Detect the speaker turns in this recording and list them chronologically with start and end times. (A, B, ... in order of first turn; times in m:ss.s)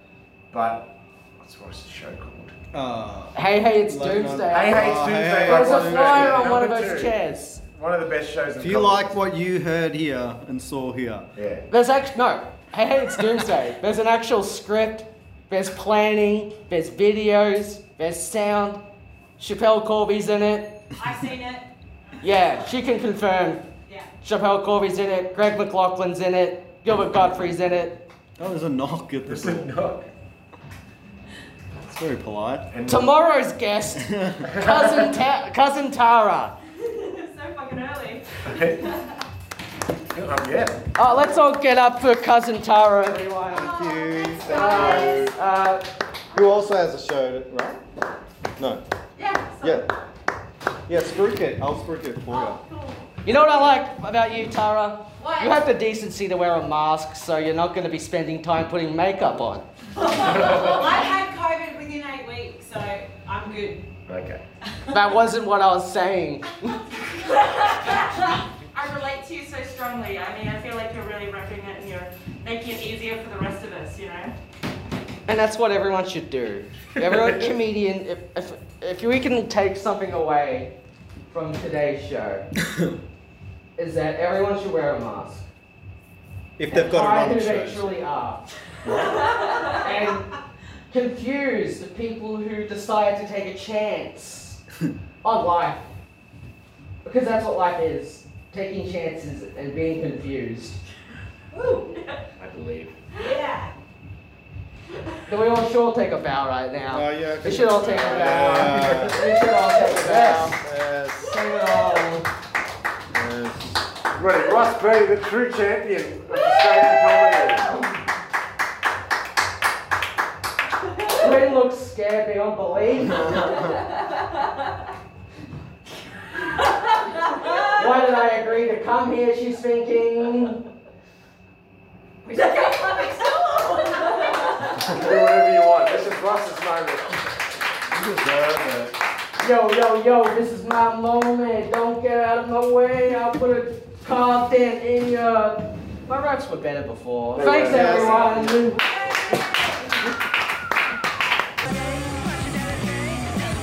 0:00.5-0:02.5 A
0:02.7-0:06.5 B
0:03.3-0:07.6 C
0:04.5-0:09.2 A
0:08.5-0:11.3 B
0:11.4-0:11.7 A
0:11.7-0:18.8 C
0:19.4-0:20.8 C
0:20.9-0:21.7 D
0:22.2-0:23.6 C
0:23.9-0:24.1 D
0:24.2-0:28.0 C
0:28.4-0:29.7 B
0:29.2-0:30.1 A
0:31.7-0:32.7 B
0:32.7-0:33.1 A
0:32.8-0:36.5 C
0:34.0-0:34.6 B
0:34.6-0:34.9 A
0:36.8-0:39.1 D
0:38.4-0:38.9 A
0:40.1-0:40.9 A
0:40.9-0:43.7 C
0:43.5-0:45.4 B
0:43.5-0:45.2 D
0:44.3-0:45.3 E
0:44.5-0:45.8 C
0:46.3-0:47.8 B
0:48.6-0:48.8 B
0:49.2-0:49.6 E
0:49.6-0:49.9 B
0:50.9-0:52.6 B
0:52.3-0:53.2 D
0:53.2-0:59.6 C
0:55.2-0:55.5 E
1:00.0-1:03.8 D
1:00.3-1:00.8 A
1:04.1-1:04.4 A
1:04.9-1:06.8 C
1:06.9-1:14.3 D
1:15.3-1:20.7 C
1:21.3-1:22.5 C
1:23.8-1:25.5 C
1:26.6-1:28.0 B
1:26.7-1:30.3 C
1:28.8-1:29.3 B
1:28.9-1:29.8 D
1:30.9-1:34.6 C
1:35.2-1:35.9 C
1:37.0-1:40.8 C
1:41.5-1:42.2 D
1:42.4-1:43.0 A
1:43.1-1:43.7 D
1:45.3-1:50.6 C
1:46.9-1:51.5 B
1:48.2-1:48.9 A
1:51.2-1:52.2 C
1:53.1-1:53.9 B
1:54.1-1:57.8 A
2:01.1-2:03.7 C
2:06.5-2:07.7 D
2:07.7-2:10.6 C
2:12.2-2:15.0 E
2:12.3-2:14.8 D
2:14.8-2:17.3 A
2:17.9-2:18.9 A
2:19.4-2:28.8 C
2:27.4-2:28.5 A
2:27.4-2:28.6 B
2:28.7-2:29.8 D